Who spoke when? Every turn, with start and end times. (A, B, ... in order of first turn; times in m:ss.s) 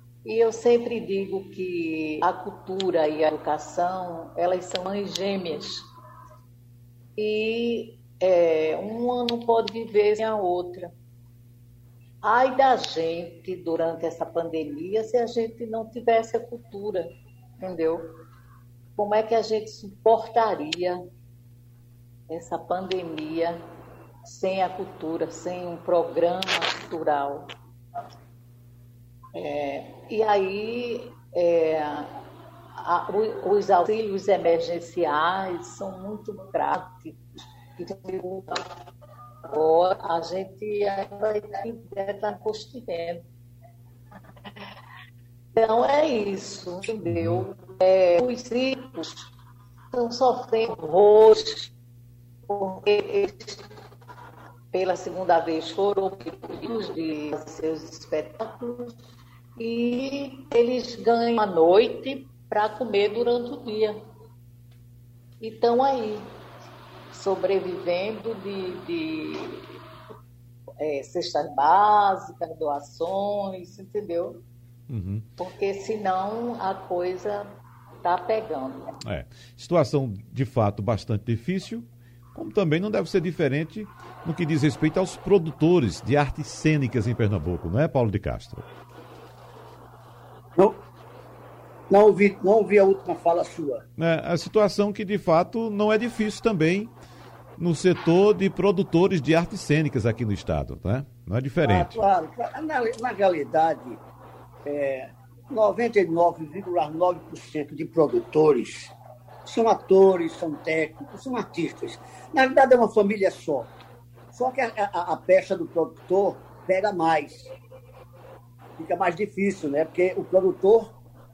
0:00.2-0:05.9 A
0:07.2-0:10.9 A
0:12.2-0:18.1 A
0:19.0-0:21.0 A
0:22.3-0:23.6 A
0:24.2-0:27.5 A
0:29.3-0:32.2 A
0:32.8-0:37.2 A
0:37.8-0:38.7 A
0:39.4-0:43.3 A
0:45.5-0:49.3 A
0:47.1-0:47.4 B
0:49.9-0:51.7 A
0:52.5-0:53.7 A
0:54.7-0:59.0 A
0:59.6-1:04.0 A
1:05.4-1:06.3 A
1:07.1-1:09.7 A
1:10.8-1:14.4 A
1:14.9-1:15.3 B
1:15.4-1:19.0 A
1:19.0-1:28.7 B
1:31.9-1:33.8 C
1:34.0-1:36.9 B
1:37.6-1:42.0 B
1:41.6-1:44.0 C
1:44.6-1:48.9 C
1:49.5-1:53.7 C
1:54.3-1:57.5 C
1:58.8-2:00.9 C